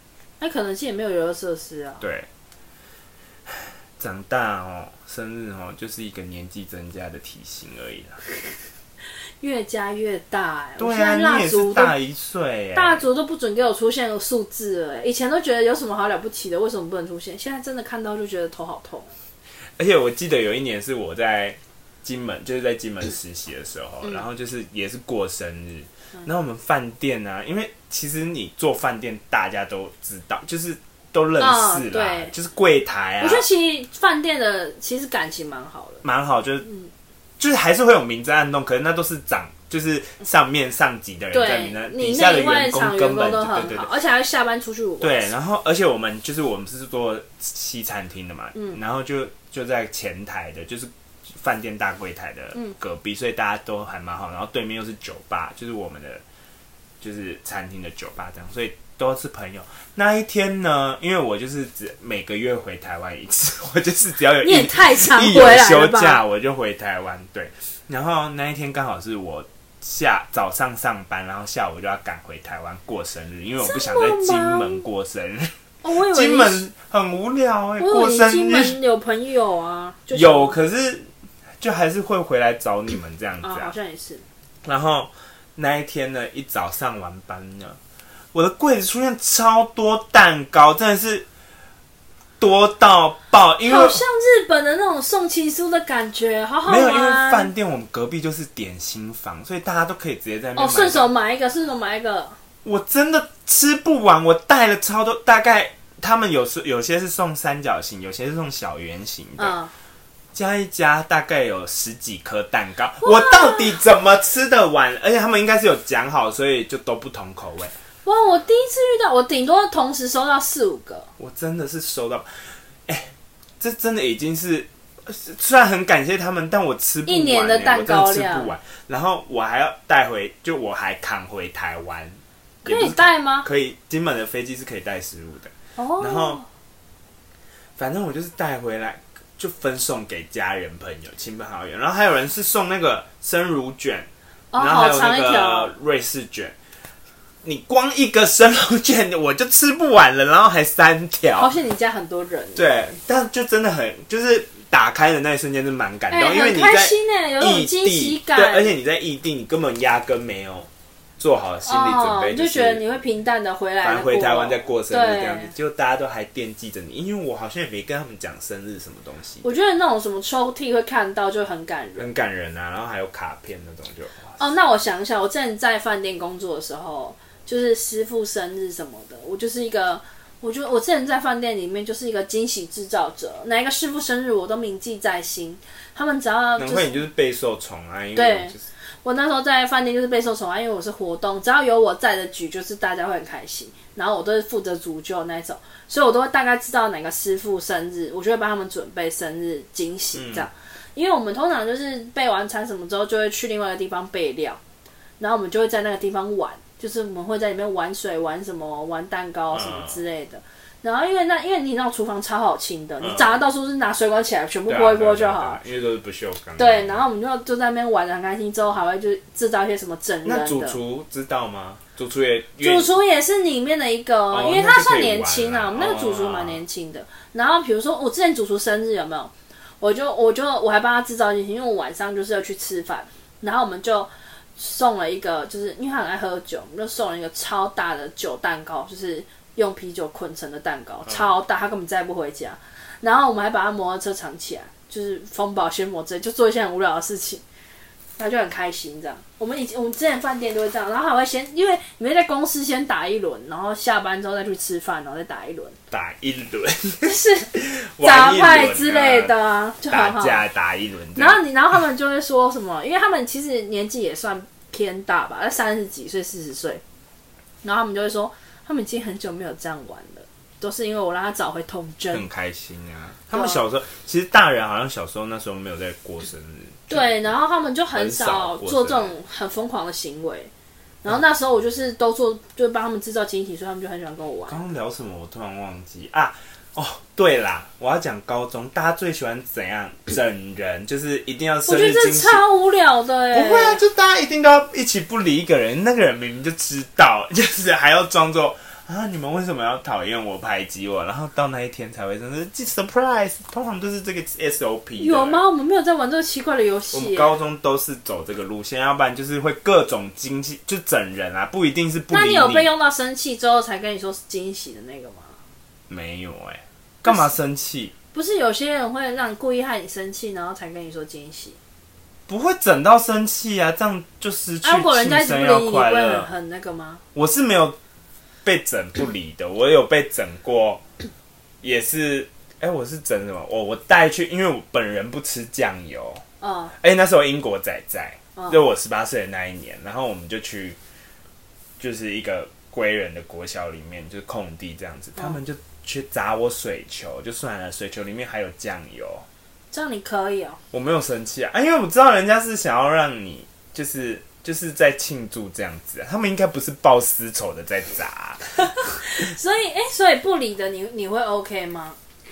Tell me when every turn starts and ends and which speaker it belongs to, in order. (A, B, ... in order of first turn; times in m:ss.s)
0:00.4-0:02.0 A
0:02.0-0:02.3 B
0:03.5-0:08.2 B
0:09.4-0:12.0 A
0:10.8-0:13.0 B
0:12.8-0:19.1 A
0:19.8-0:33.4 B
0:31.4-0:32.3 A
0:33.2-0:36.0 A
0:36.0-0:36.7 B
0:37.4-0:43.9 B
0:41.3-0:45.3 A
0:45.0-0:56.2 B
0:57.0-1:18.8 B
1:04.4-1:06.2 A
1:13.6-1:14.8 A
1:15.8-1:16.6 A
1:17.8-1:20.6 A
1:20.1-1:21.1 B
1:21.6-1:23.8 B
1:23.4-1:24.2 A
1:24.6-1:27.8 B
1:28.3-1:31.3 B
1:32.4-1:34.0 B
1:33.6-1:37.5 A
1:36.7-1:41.1 B
1:40.6-1:42.4 A
1:42.6-1:49.6 B
1:49.4-1:49.7 A
1:50.3-1:57.7 B
1:53.0-1:53.8 A
1:58.0-2:01.1 A
2:01.2-2:16.4 B
2:07.1-2:08.5 A
2:12.6-2:13.5 A
2:15.8-2:16.4 A
2:17.8-2:26.6 B
2:24.5-2:25.7 A
2:27.4-2:31.5 B
2:31.4-2:32.6 A
2:32.6-2:40.7 B
2:36.1-2:38.7 A
2:41.2-2:42.8 B
2:41.6-2:45.5 A
2:43.8-2:49.5 B
2:49.4-2:52.1 A
2:52.0-2:54.4 B
2:54.4-3:07.0 A
3:06.6-3:08.6 B
3:08.2-3:24.6 A
3:20.1-3:20.5 B
3:25.2-3:35.6 A
3:29.5-3:30.0 B
3:33.0-3:33.4 B
3:34.7-3:37.0 B
3:36.6-3:40.8 A
3:40.2-3:42.9 B
3:42.6-4:07.4 A
3:44.3-3:46.6 B
4:08.2-4:15.8 A
4:15.9-4:19.3 B
4:17.0-4:20.4 A
4:19.9-4:21.4 B
4:21.2-4:26.8 A
4:27.6-4:32.2 A
4:32.1-4:37.2 B
4:33.3-4:33.6 A
4:36.9-4:40.5 A
4:37.9-4:39.1 B
4:41.0-4:44.6 A
4:44.5-4:52.4 B
4:51.7-4:53.8 A
4:53.3-5:05.4 B
5:05.0-5:07.3 A
5:06.9-5:12.7 B
5:12.1-5:15.4 A
5:15.9-5:17.9 B
5:18.1-5:21.6 A
5:22.3-5:26.3 B
5:24.6-5:27.0 A
5:27.1-5:27.8 B
5:28.4-5:30.8 B
5:31.6-5:36.2 B
5:36.4-5:36.7 A
5:36.8-5:40.8 B
5:41.8-5:49.2 B
5:49.7-5:50.6 A
5:50.7-5:58.6 B
5:58.7-6:02.0 A